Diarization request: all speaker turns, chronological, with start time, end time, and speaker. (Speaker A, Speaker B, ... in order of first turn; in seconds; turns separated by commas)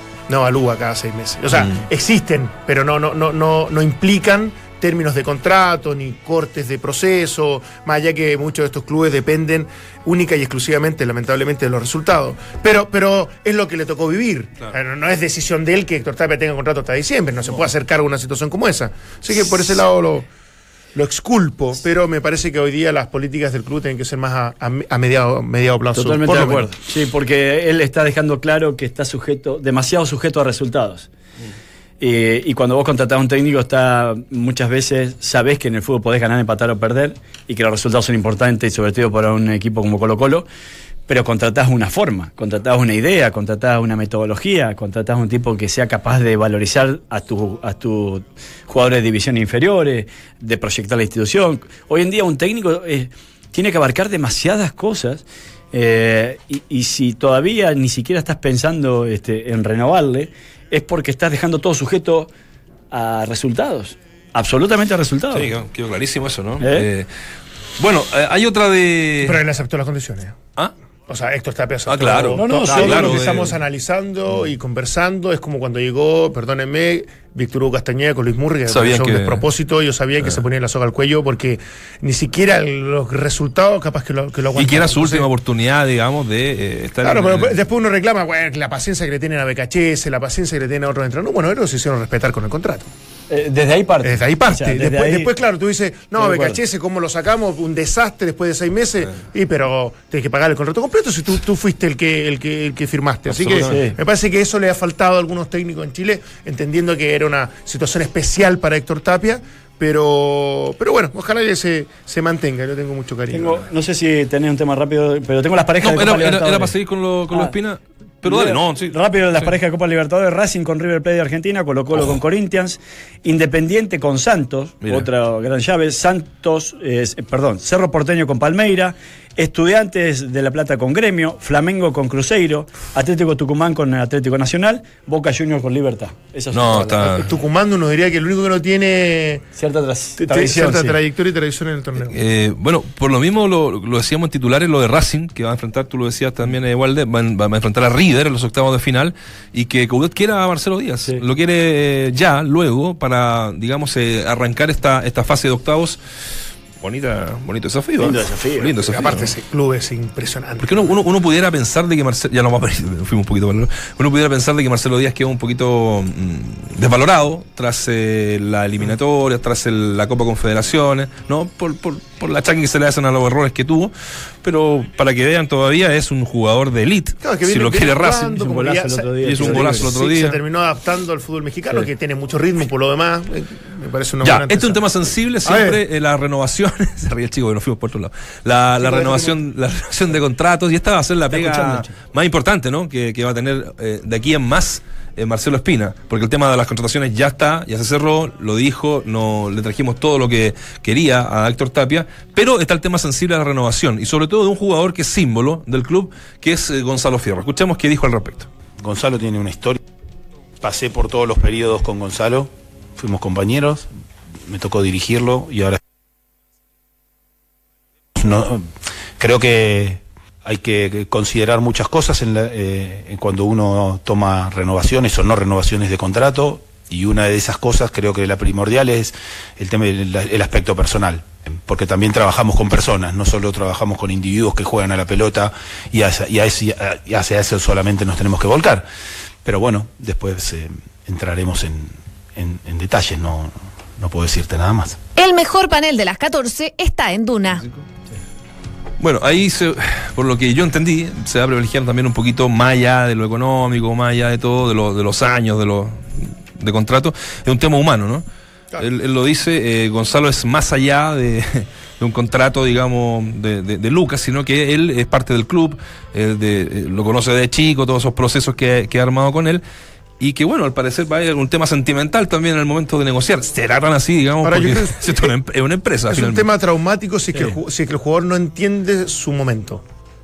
Speaker A: 0.3-20.3, Speaker B: 1.6-1.8, Speaker A: 20.9-26.7, Speaker C: 25.9-31.1, Speaker C: 32.0-40.5, Speaker C: 41.1-62.3, Speaker C: 62.9-65.5, Speaker B: 65.3-67.1, Speaker C: 66.6-66.9, Speaker B: 67.8-69.4, Speaker A: 69.2-70.4, Speaker A: 71.1-85.3, Speaker B: 71.9-73.5, Speaker C: 72.3-73.5, Speaker B: 78.7-79.4, Speaker B: 84.5-87.6, Speaker A: 87.0-92.9, Speaker C: 93.3-95.3, Speaker A: 94.0-113.7, Speaker C: 96.2-96.6, Speaker B: 103.3-103.8, Speaker C: 103.6-104.0, Speaker C: 113.3-116.7, Speaker B: 115.8-119.5, Speaker C: 118.2-137.1, Speaker B: 136.5-137.3, Speaker A: 137.0-139.4, Speaker C: 139.6-141.0, Speaker A: 140.2-142.2, Speaker B: 142.0-156.0, Speaker B: 156.8-159.3, Speaker C: 158.0-158.8, Speaker A: 158.8-160.9, Speaker B: 160.6-180.4, Speaker A: 177.2-184.8, Speaker C: 178.6-179.9, Speaker B: 184.2-208.5, Speaker A: 185.4-185.8, Speaker A: 188.8-189.4, Speaker C: 191.3-191.9, Speaker D: 208.8-209.8, Speaker D: 210.6-213.9, Speaker D: 214.4-215.8, Speaker D: 218.1-238.9, Speaker D: 239.4-245.0, Speaker E: 245.2-247.6, Speaker B: 247.6-247.8, Speaker B: 249.0-258.2, Speaker B: 258.8-269.6, Speaker B: 270.2-276.4, Speaker A: 274.4-275.3, Speaker A: 276.1-279.8